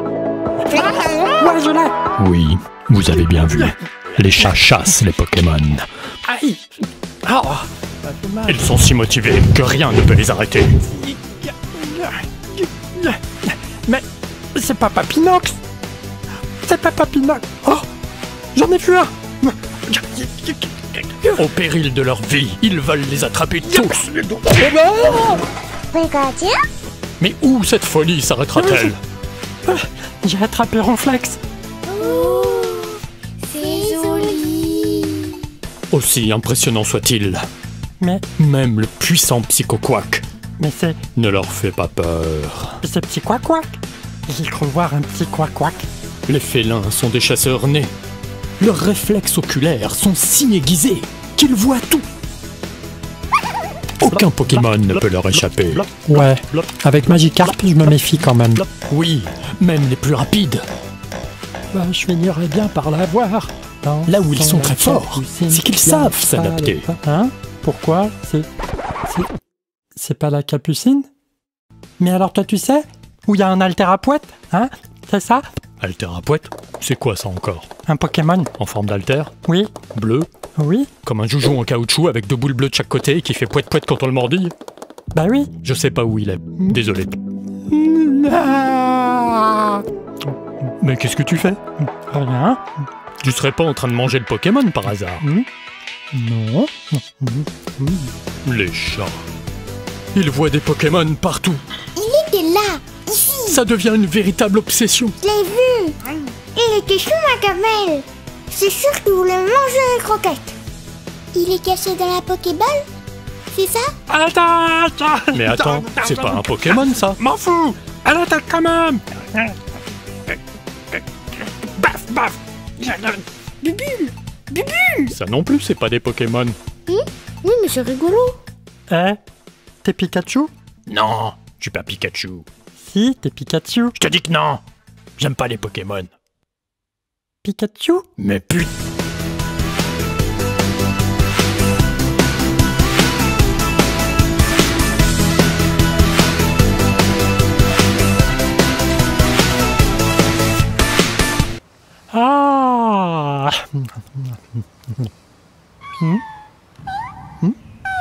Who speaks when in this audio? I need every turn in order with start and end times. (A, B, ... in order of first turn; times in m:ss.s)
0:00.8-0:02.0 A
0:02.2-0:05.9 B
0:03.3-0:03.7 A
0:06.3-0:06.7 A
0:07.2-0:08.7 A
0:08.5-0:10.8 B
0:10.9-0:15.6 A
0:16.6-0:17.9 A
0:18.5-0:21.4 A
0:21.3-0:24.1 B
0:23.7-0:25.4 A
0:25.9-0:26.7 C
0:27.2-0:29.0 B
0:28.5-0:29.0 A
0:29.7-0:31.4 A
0:31.9-0:35.4 C
0:35.9-0:37.5 B
0:38.0-0:38.2 A
0:38.4-0:40.2 B
0:40.6-0:41.0 A
0:41.2-0:42.8 B
0:42.8-0:43.7 A
0:44.3-0:45.9 A
0:46.3-0:47.9 B
0:48.6-0:52.0 B
0:54.0-0:56.2 B
0:56.1-0:58.7 A
0:58.7-1:00.6 B
1:01.7-1:08.5 A
1:04.1-1:06.9 B
1:10.0-1:11.1 A
1:12.0-1:15.4 A
1:15.8-1:17.7 B
1:17.9-1:18.5 A
1:18.6-1:19.3 B
1:19.5-1:19.7 A
1:19.9-1:20.3 B
1:20.6-1:20.9 A
1:21.0-1:24.5 B
1:25.2-1:25.5 A
1:25.6-1:27.2 B
1:27.7-1:29.8 A
1:30.8-1:31.6 B
1:32.1-1:32.6 A
1:33.2-1:35.2 B
1:35.2-1:35.5 A
1:36.1-1:38.1 A
1:38.4-1:39.3 B
1:40.1-1:41.6 B
1:42.0-1:43.6 C
1:43.5-1:45.2 B
1:45.2-1:46.0 C
1:46.6-1:50.6 C
1:51.3-1:52.9 C
1:53.5-1:53.9 C
1:54.1-1:59.5 A
1:55.3-1:57.2 B
2:01.6-2:04.1 A
2:04.5-2:04.9 C
2:04.7-2:05.0 A
2:05.1-2:06.6 B
2:06.9-2:08.4 C
2:08.9-2:09.2 A
2:09.8-2:10.5 A
2:10.9-2:12.5 B
2:12.8-2:14.0 A
2:14.0-2:14.6 B
2:15.2-2:16.1 B
2:17.4-2:18.1 A
2:18.2-2:18.7 B
2:32.1-2:34.4 A